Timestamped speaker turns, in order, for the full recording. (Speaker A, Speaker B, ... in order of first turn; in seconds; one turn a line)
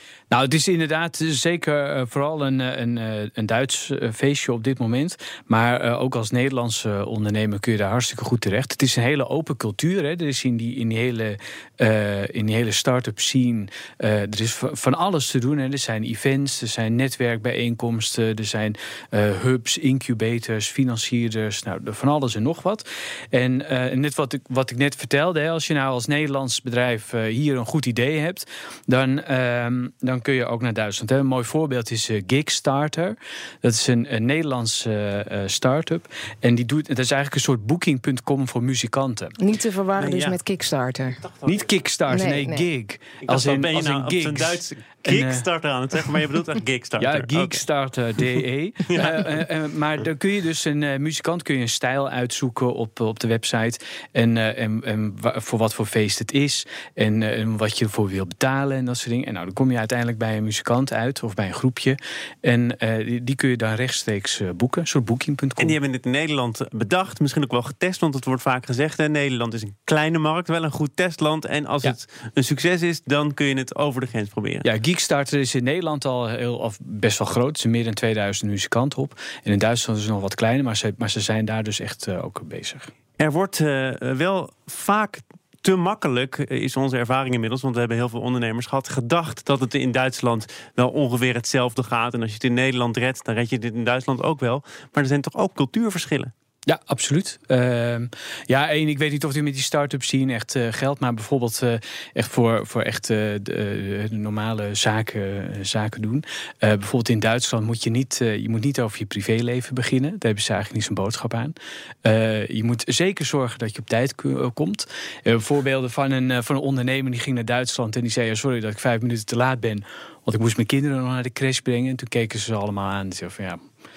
Speaker A: 0.3-39.4
Speaker B: 39.4-41.2
Speaker C: 40.0-40.4
Speaker C: 41.2-41.6
Speaker A: 41.5-45.5
Speaker B: 42.1-42.7
Speaker C: 43.2-47.6
Speaker A: 47.0-65.8
Speaker C: 48.9-49.3
Speaker C: 65.6-74.7
Speaker A: 74.6-82.9
Speaker C: 83.2-96.3
Speaker A: 96.7-123.6